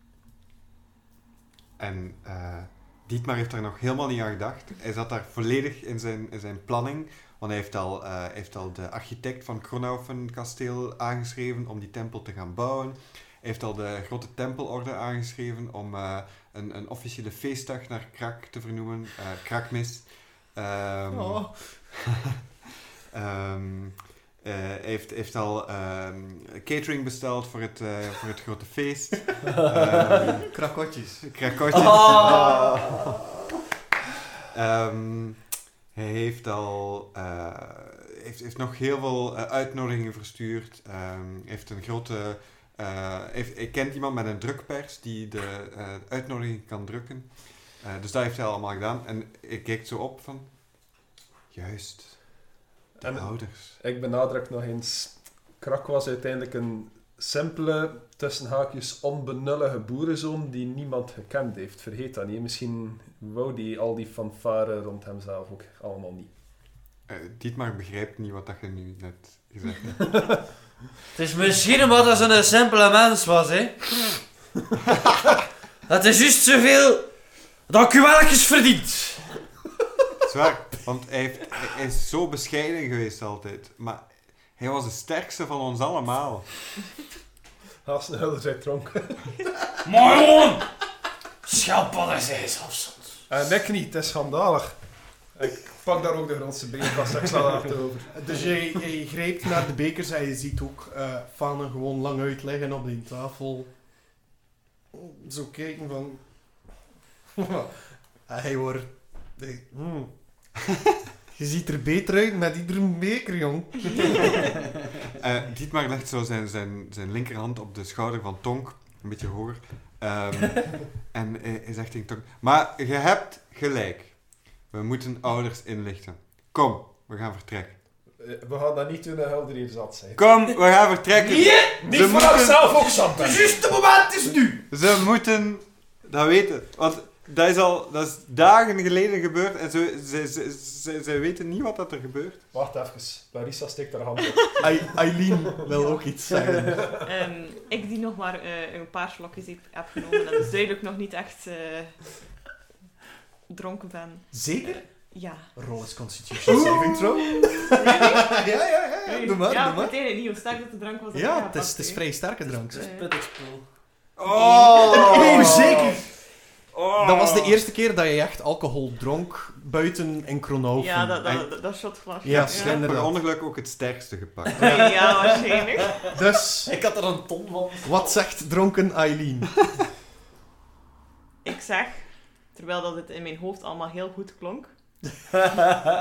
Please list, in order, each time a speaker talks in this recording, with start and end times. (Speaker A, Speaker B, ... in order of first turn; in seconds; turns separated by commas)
Speaker A: 1.8-22.0, Speaker B: 21.1-21.8, Speaker A: 23.1-30.7, Speaker C: 29.6-30.4, Speaker B: 30.5-31.3, Speaker A: 31.2-33.2, Speaker C: 31.7-33.3, Speaker A: 34.5-50.5, Speaker A: 51.5-53.8, Speaker D: 53.0-66.3, Speaker A: 67.1-70.5, Speaker C: 71.1-74.2, Speaker C: 75.9-79.4, Speaker A: 80.2-86.5, Speaker D: 87.8-89.3, Speaker C: 89.8-90.7, Speaker C: 91.4-93.2, Speaker D: 93.3-94.8, Speaker D: 95.3-98.3, Speaker B: 98.1-103.7, Speaker B: 104.9-106.7, Speaker B: 107.3-110.1, Speaker B: 111.3-114.1, Speaker A: 115.2-127.8, Speaker D: 128.2-130.3, Speaker A: 130.2-132.8, Speaker C: 131.1-134.7, Speaker D: 131.7-133.6, Speaker A: 134.7-142.4, Speaker D: 142.5-145.1, Speaker B: 144.6-146.9, Speaker E: 145.7-146.0, Speaker E: 147.0-152.2, Speaker E: 153.5-155.5, Speaker B: 154.3-154.8, Speaker B: 155.5-159.9, Speaker E: 156.5-156.8, Speaker E: 157.4-158.5, Speaker E: 159.0-162.1, Speaker B: 161.1-162.9, Speaker C: 162.7-163.7, Speaker E: 162.7-163.1, Speaker A: 164.2-165.8, Speaker E: 164.3-165.2, Speaker B: 164.8-166.0, Speaker C: 165.0-166.0, Speaker A: 166.7-167.6, Speaker B: 167.0-171.5, Speaker E: 170.8-172.8, Speaker B: 172.2-173.2, Speaker A: 172.2-174.8, Speaker C: 174.5-178.2, Speaker E: 174.6-176.0, Speaker B: 176.1-176.8, Speaker B: 177.8-179.6, Speaker E: 181.4-184.7